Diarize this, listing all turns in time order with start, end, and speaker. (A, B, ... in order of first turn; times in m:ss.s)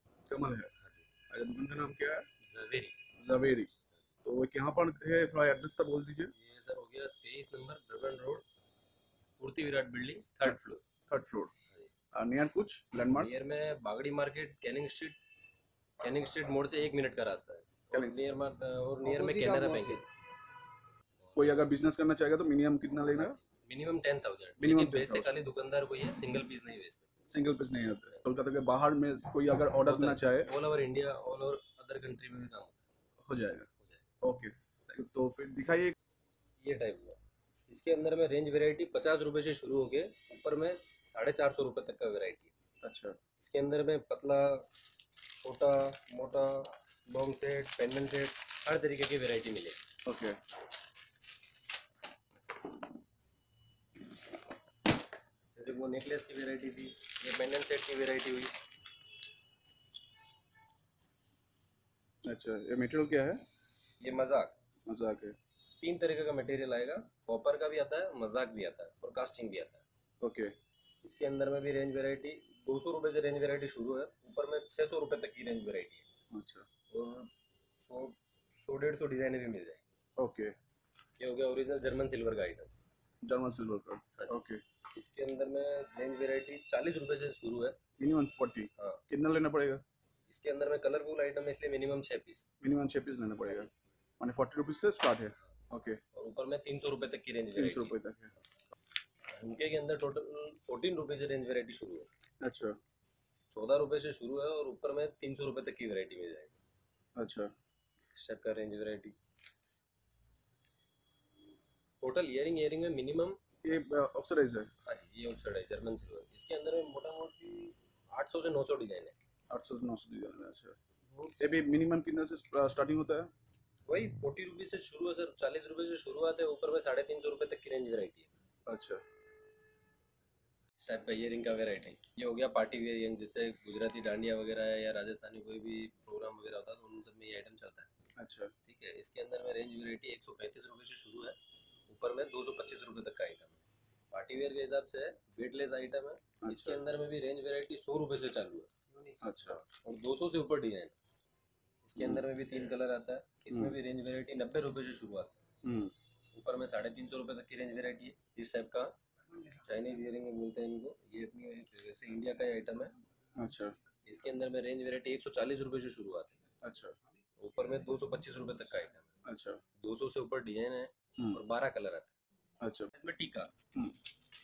0:00.2-0:00.7 A
0:00.8-0:01.1 B
0:01.3-0:02.3 A
0:02.4-0:03.0 B
0:03.2-0:03.7 A
0:04.2-0:06.3 A
0:06.3-0:08.4 B
0:09.4-0:10.8 B
0:10.4-0:11.5 A
0:11.6-0:11.9 B
0:12.1-0:13.3 A
0:13.1-0:15.2 B
0:16.0-0:20.1 B
0:17.9-0:18.2 A
0:19.0-0:20.0 A
0:21.2-0:21.7 B
0:21.4-0:23.4 A
0:23.1-0:27.1 B
0:24.6-0:25.3 A
0:27.3-0:30.5 A
0:29.8-0:32.8 B
0:33.2-0:33.7 A
0:34.2-0:36.0 A
0:36.6-0:42.5 B
0:42.8-0:43.2 A
0:43.4-0:44.7 B
0:45.4-0:49.8 B
0:50.0-0:50.4 A
0:55.6-0:58.6 B
1:02.2-1:03.4 A
1:04.0-1:04.5 B
1:04.9-1:05.4 A
1:05.8-1:09.8 B
1:10.2-1:10.5 A
1:11.0-1:16.0 B
1:16.3-1:16.7 A
1:16.9-1:19.8 B
1:20.2-1:20.5 A
1:21.2-1:22.7 B
1:23.2-1:24.6 A
1:24.2-1:27.8 B
1:28.0-1:29.8 A
1:30.3-1:32.5 B
1:32.6-1:33.7 A
1:33.4-1:33.7 B
1:34.2-1:36.0 A
1:36.1-1:38.0 B
1:37.5-1:38.3 A
1:39.3-1:42.1 B
1:42.4-1:42.8 A
1:43.5-1:46.5 B
1:47.2-1:47.5 A
1:48.1-1:49.2 B
1:52.0-1:53.4 B
1:53.6-1:54.7 A
1:54.8-1:59.1 B
1:59.5-2:03.3 A
2:03.9-2:08.3 B
2:08.6-2:09.0 A
2:10.8-2:17.9 B
2:18.2-2:18.5 A
2:18.6-2:21.4 B
2:21.9-2:30.9 B
2:26.4-2:26.8 A
2:29.2-2:29.6 A
2:31.8-2:35.4 B
2:32.0-2:32.3 A
2:33.5-2:33.8 A
2:35.6-2:35.9 A
2:36.3-2:38.9 B
2:39.5-2:42.9 B
2:43.4-2:43.8 A
2:44.0-2:46.4 B
2:46.6-2:47.0 A
2:47.4-2:49.1 B
2:49.2-2:49.6 A
2:49.8-2:52.1 B
2:52.6-2:52.9 A
2:52.9-2:53.5 B